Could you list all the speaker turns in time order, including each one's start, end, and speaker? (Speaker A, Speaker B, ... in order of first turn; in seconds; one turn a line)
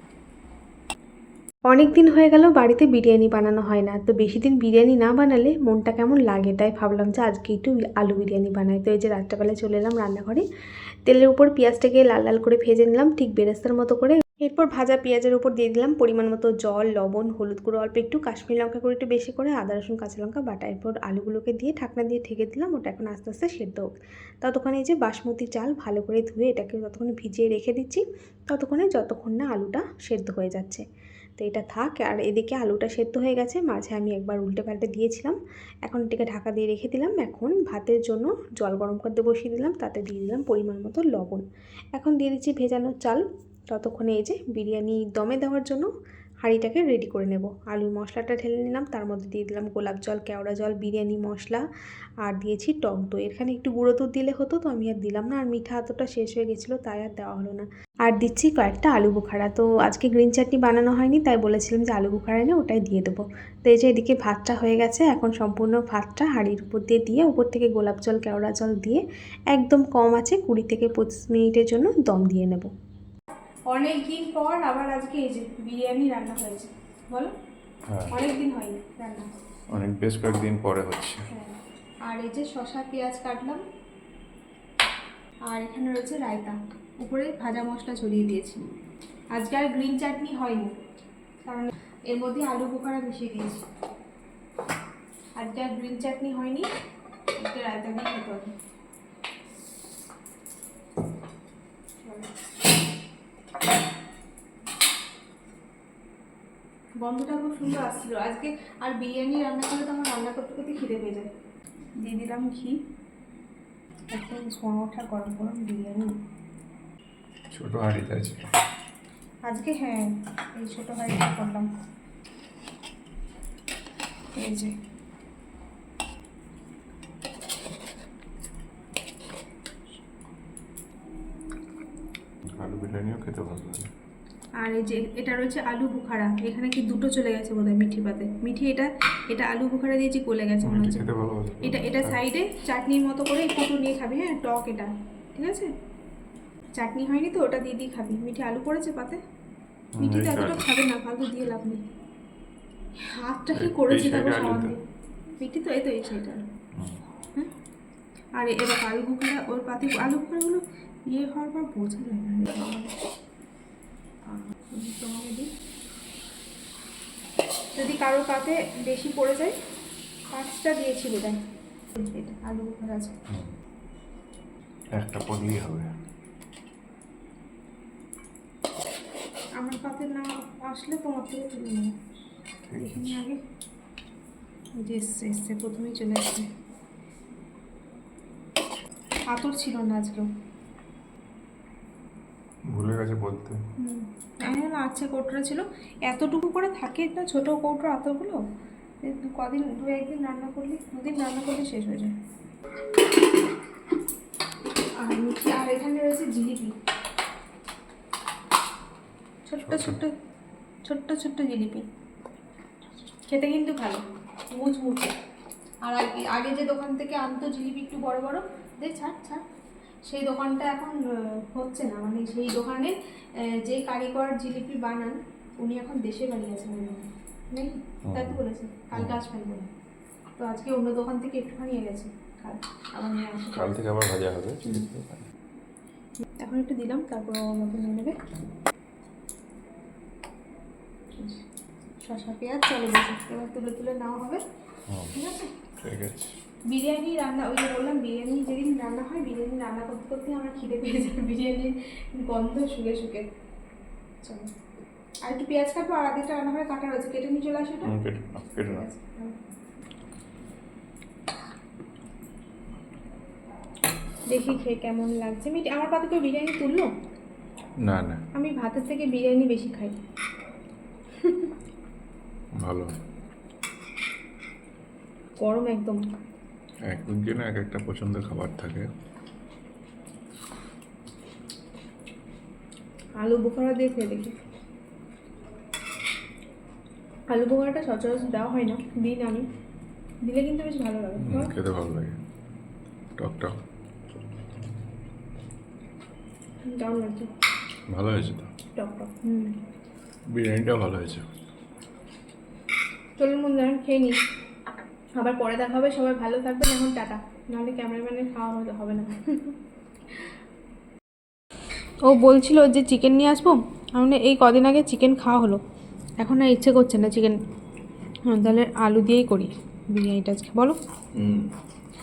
Speaker A: 1.7-10.4
Speaker A: 11.1-23.9
Speaker A: 24.4-30.8
Speaker A: 31.4-41.4
Speaker A: 41.9-45.9
Speaker A: 46.4-51.6
Speaker A: 52.2-72.7
Speaker A: 73.7-77.3
Speaker B: 77.9-78.2
Speaker A: 78.1-79.3
Speaker B: 79.7-81.3
Speaker A: 81.3-83.6
Speaker A: 85.5-88.7
Speaker A: 89.3-90.7
Speaker A: 91.4-93.6
Speaker A: 95.4-96.7
Speaker A: 97.3-98.5
Speaker A: 102.0-102.3
Speaker A: 107.0-111.3
Speaker A: 112.0-112.8
Speaker A: 114.1-116.1
Speaker B: 117.5-118.5
Speaker A: 119.5-121.7
Speaker A: 124.3-124.7
Speaker B: 132.6-133.9
Speaker A: 134.6-141.1
Speaker B: 140.6-142.2
Speaker A: 141.6-145.7
Speaker A: 146.7-149.2
Speaker B: 149.9-150.7
Speaker A: 150.0-151.8
Speaker A: 153.0-154.8
Speaker B: 153.5-154.7
Speaker A: 155.4-156.4
Speaker A: 158.3-162.9
Speaker A: 164.3-165.5
Speaker A: 167.8-169.5
Speaker A: 170.3-171.4
Speaker A: 171.9-173.1
Speaker B: 174.9-175.9
Speaker A: 179.6-181.9
Speaker B: 182.7-183.2
Speaker A: 182.8-183.4
Speaker A: 184.8-186.4
Speaker A: 189.3-190.3
Speaker B: 192.7-193.6
Speaker A: 193.8-198.4
Speaker A: 199.0-202.1
Speaker A: 205.0-206.7
Speaker A: 209.5-210.1
Speaker B: 209.7-210.0
Speaker A: 210.8-211.9
Speaker A: 213.2-215.2
Speaker A: 215.8-219.4
Speaker A: 220.1-229.7
Speaker B: 228.1-228.4
Speaker B: 228.9-229.2
Speaker A: 230.4-233.8
Speaker B: 233.5-235.3
Speaker A: 236.2-238.2
Speaker A: 241.2-241.4
Speaker A: 242.0-244.4
Speaker A: 245.1-245.6
Speaker B: 245.8-246.3
Speaker A: 246.7-253.3
Speaker A: 254.2-254.5
Speaker A: 255.2-257.9
Speaker B: 257.8-258.9
Speaker A: 258.6-259.5
Speaker A: 264.3-266.9
Speaker B: 267.8-268.2
Speaker A: 268.3-269.9
Speaker A: 271.2-271.5
Speaker B: 272.6-272.9
Speaker A: 275.4-276.0
Speaker B: 276.9-278.9
Speaker A: 283.2-284.3
Speaker A: 287.3-289.4
Speaker A: 290.2-291.5
Speaker B: 291.2-292.2
Speaker B: 293.2-293.5
Speaker A: 296.7-297.3
Speaker B: 297.9-298.5
Speaker A: 298.7-299.6
Speaker B: 300.3-301.2
Speaker A: 303.2-304.2
Speaker A: 305.1-309.6
Speaker A: 312.0-315.6
Speaker A: 316.2-317.4
Speaker A: 318.3-320.8
Speaker B: 321.2-321.5